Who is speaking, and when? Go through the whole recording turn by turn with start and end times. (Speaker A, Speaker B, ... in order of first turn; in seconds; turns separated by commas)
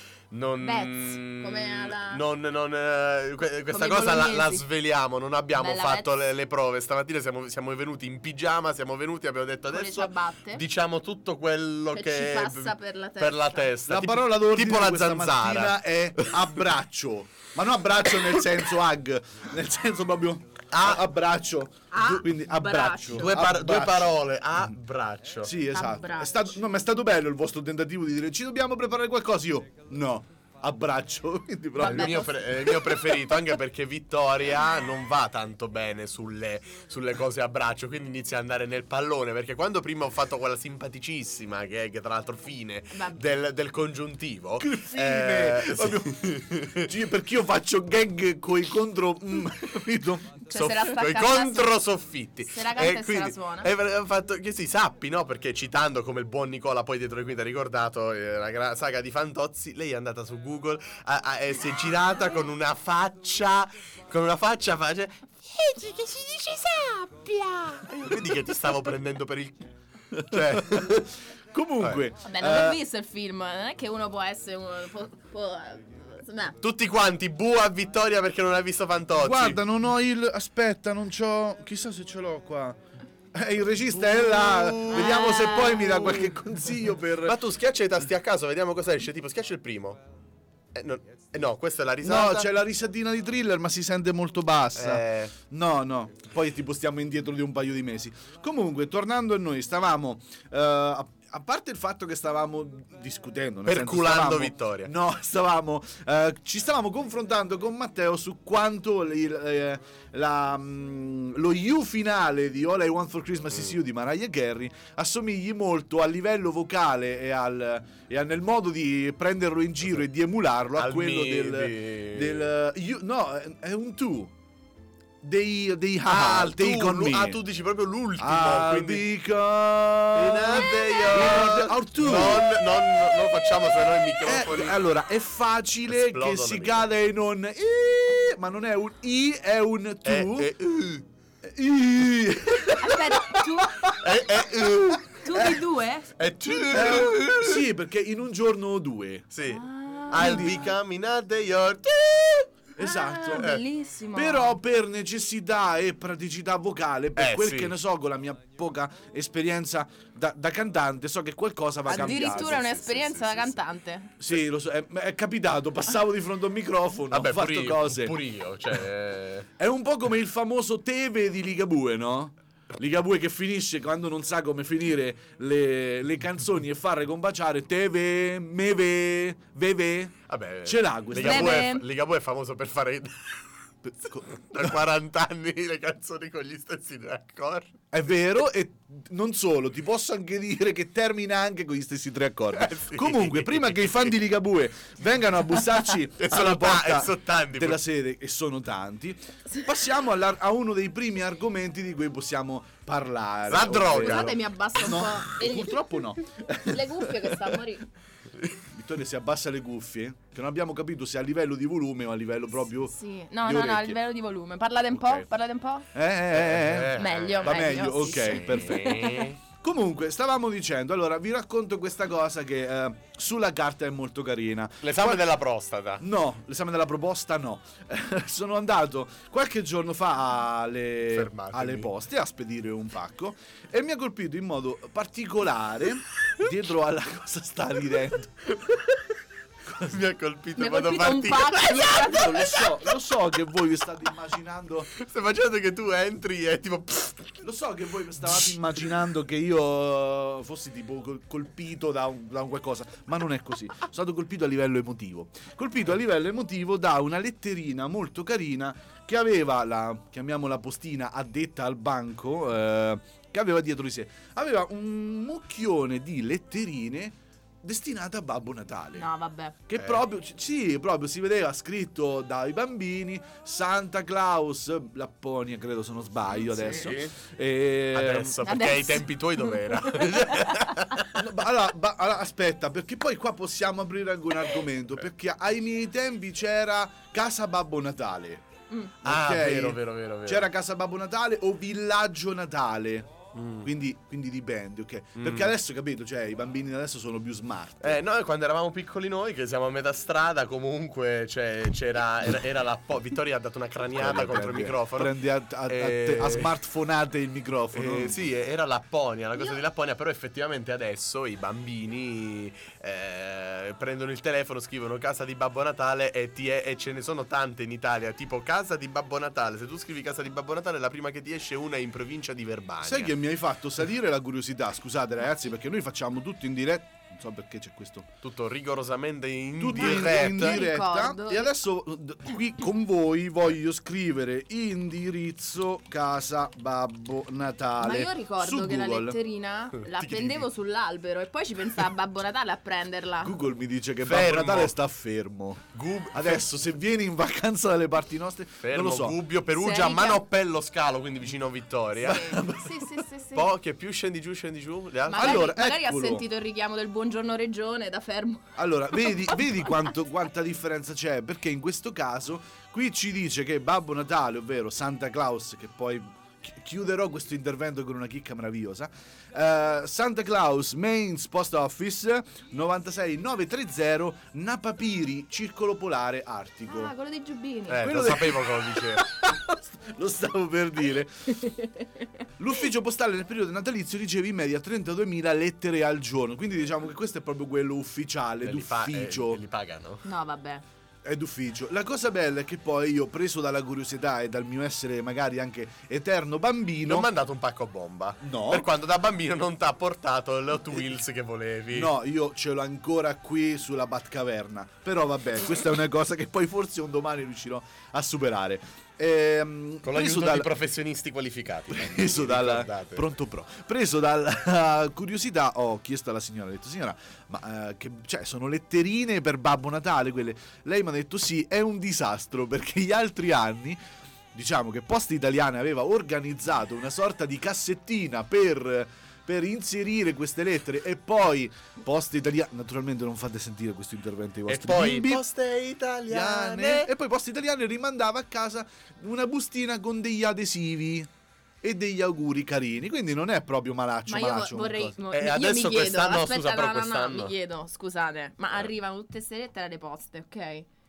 Speaker A: 0.3-16.6, Speaker B: 0.6-2.2, Speaker B: 3.7-4.7, Speaker B: 5.5-6.1, Speaker B: 9.7-10.6, Speaker B: 11.9-13.7, Speaker C: 13.9-24.7, Speaker A: 18.2-18.4, Speaker A: 20.7-21.0, Speaker B: 21.9-23.4, Speaker A: 23.1-25.5, Speaker C: 25.4-32.2, Speaker B: 25.7-26.6, Speaker B: 31.8-33.4, Speaker A: 31.8-46.9, Speaker B: 42.9-43.2, Speaker C: 44.6-46.1, Speaker C: 46.8-50.4, Speaker B: 50.5-51.7, Speaker A: 50.5-69.7, Speaker B: 52.5-53.7, Speaker C: 70.1-70.9, Speaker A: 70.2-71.1, Speaker C: 71.5-72.8, Speaker B: 72.2-76.6, Speaker A: 76.6-79.6, Speaker C: 79.1-82.8, Speaker C: 83.3-87.4, Speaker A: 84.0-86.4, Speaker B: 84.9-86.1, Speaker A: 87.2-90.0, Speaker A: 90.7-92.5, Speaker C: 92.0-124.3, Speaker A: 94.7-95.3, Speaker A: 103.7-104.9, Speaker A: 120.8-122.5, Speaker C: 125.2-127.4, Speaker A: 126.0-129.1, Speaker C: 128.2-133.0, Speaker A: 130.1-134.9, Speaker C: 134.2-140.5, Speaker A: 135.9-136.9, Speaker A: 140.0-141.0, Speaker C: 141.4-145.5, Speaker B: 142.8-144.0, Speaker A: 144.0-145.4, Speaker B: 145.1-147.0, Speaker A: 146.2-147.6, Speaker C: 146.7-149.3, Speaker A: 149.3-152.5, Speaker B: 149.5-150.7, Speaker C: 150.1-150.7, Speaker C: 152.8-153.5, Speaker B: 152.8-154.6, Speaker A: 153.3-153.6, Speaker C: 154.1-162.6, Speaker A: 157.2-157.7, Speaker B: 161.8-164.1, Speaker A: 161.9-163.6, Speaker C: 164.2-168.2, Speaker A: 167.1-169.5, Speaker C: 169.6-181.7, Speaker A: 180.3-183.1, Speaker B: 181.1-181.8, Speaker C: 183.8-184.7, Speaker A: 184.1-187.7, Speaker C: 187.9-207.6, Speaker A: 192.5-194.2, Speaker A: 195.6-197.8, Speaker A: 203.5-204.4, Speaker B: 203.9-206.0, Speaker B: 206.6-207.8, Speaker C: 208.7-214.0, Speaker B: 212.9-215.9, Speaker C: 215.9-225.2, Speaker A: 216.3-219.4, Speaker B: 216.9-219.3, Speaker A: 224.8-226.0, Speaker C: 226.0-238.3, Speaker A: 231.1-231.9, Speaker A: 238.5-238.9, Speaker A: 239.8-242.9, Speaker B: 240.6-242.6, Speaker C: 241.9-244.9, Speaker A: 244.9-247.4, Speaker C: 247.4-269.1, Speaker A: 248.2-248.6, Speaker B: 268.9-269.6, Speaker C: 269.7-278.4, Speaker A: 269.8-270.0, Speaker A: 276.4-277.1, Speaker A: 277.9-281.2, Speaker B: 278.4-280.5, Speaker C: 281.1-288.4, Speaker C: 289.0-293.1, Speaker A: 289.0-290.5, Speaker A: 293.3-293.7, Speaker C: 293.6-298.0, Speaker A: 295.2-295.5, Speaker A: 297.8-306.5, Speaker C: 303.9-308.1, Speaker A: 307.7-323.1, Speaker C: 322.8-328.1, Speaker A: 328.2-330.6, Speaker C: 329.6-339.2, Speaker B: 329.8-331.5, Speaker B: 337.8-343.4, Speaker A: 339.9-340.5, Speaker C: 343.2-349.2, Speaker A: 344.0-344.8, Speaker A: 345.7-346.4, Speaker A: 348.6-352.4, Speaker B: 349.5-350.2, Speaker B: 352.0-353.5, Speaker C: 352.0-353.0, Speaker A: 353.3-355.4, Speaker B: 355.1-359.4, Speaker C: 355.1-356.2, Speaker C: 358.6-376.9, Speaker B: 376.6-378.0, Speaker A: 377.7-379.0, Speaker C: 377.8-381.3, Speaker B: 381.4-382.0, Speaker C: 382.4-389.4, Speaker A: 388.4-390.0, Speaker B: 390.0-390.6, Speaker C: 391.0-397.1, Speaker A: 396.8-401.9, Speaker C: 398.2-398.7, Speaker C: 401.7-410.5, Speaker A: 409.8-413.1, Speaker C: 411.7-423.8, Speaker C: 424.3-435.2, Speaker A: 434.5-436.9, Speaker C: 436.1-441.1, Speaker C: 441.6-445.0, Speaker B: 444.1-450.7, Speaker A: 445.1-447.3